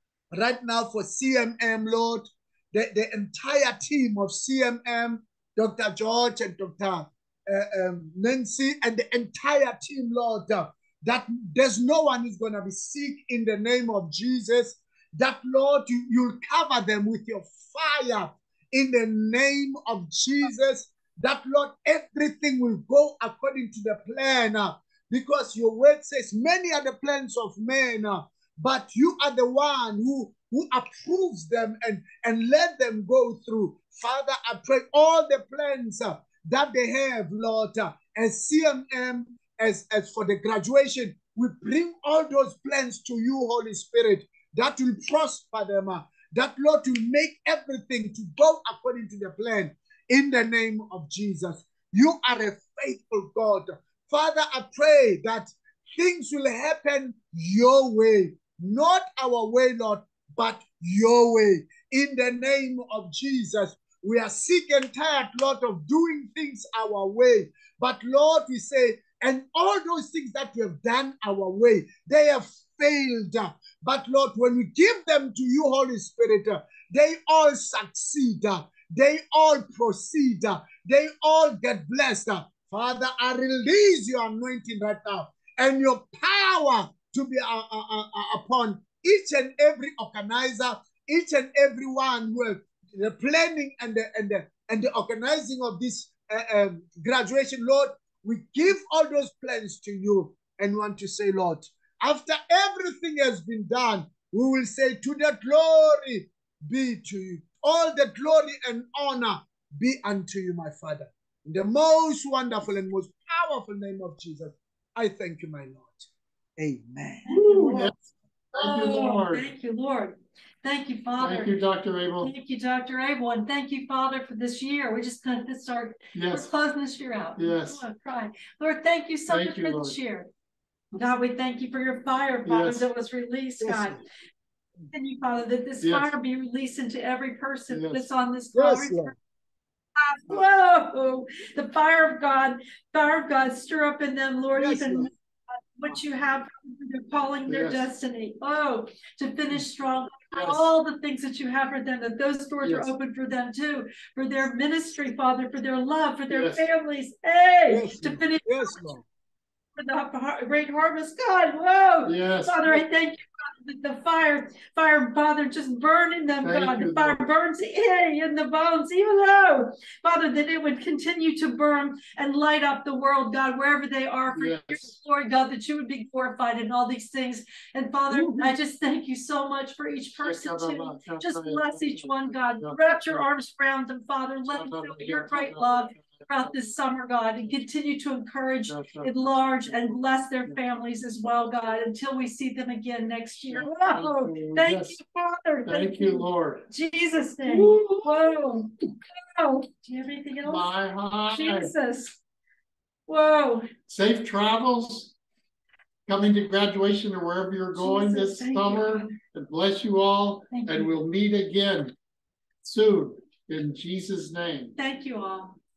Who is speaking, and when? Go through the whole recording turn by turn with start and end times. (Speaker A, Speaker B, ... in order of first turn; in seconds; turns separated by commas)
Speaker A: 0.3-117.9, Speaker B: 117.3-117.9, Speaker C: 117.3-117.9, Speaker C: 118.5-119.5, Speaker B: 118.6-121.5, Speaker C: 121.2-122.3, Speaker B: 122.2-130.3, Speaker C: 126.1-126.5, Speaker C: 127.4-127.8, Speaker C: 129.3-129.9, Speaker B: 130.9-134.0, Speaker C: 132.4-132.8, Speaker A: 133.6-134.0, Speaker B: 134.9-139.1, Speaker C: 135.8-136.1, Speaker C: 137.7-138.1, Speaker A: 138.5-139.1, Speaker B: 140.0-145.1, Speaker A: 144.6-145.1, Speaker B: 145.7-158.8, Speaker C: 147.5-147.8, Speaker C: 150.3-150.7, Speaker C: 152.6-152.9, Speaker C: 156.3-156.7, Speaker A: 157.7-159.0, Speaker B: 159.8-198.7, Speaker C: 162.0-162.8, Speaker C: 166.4-167.2, Speaker C: 174.3-174.9, Speaker C: 178.1-178.5, Speaker C: 180.2-183.2, Speaker C: 184.5-186.5, Speaker C: 188.7-189.1, Speaker C: 193.5-195.0, Speaker C: 195.7-196.7, Speaker C: 197.4-198.3, Speaker B: 199.3-200.7, Speaker C: 200.4-201.7, Speaker B: 201.3-202.2, Speaker B: 203.1-203.7, Speaker C: 203.9-205.1, Speaker C: 206.1-211.9, Speaker B: 207.8-209.2, Speaker B: 210.5-210.9, Speaker C: 212.6-214.7, Speaker B: 214.8-215.6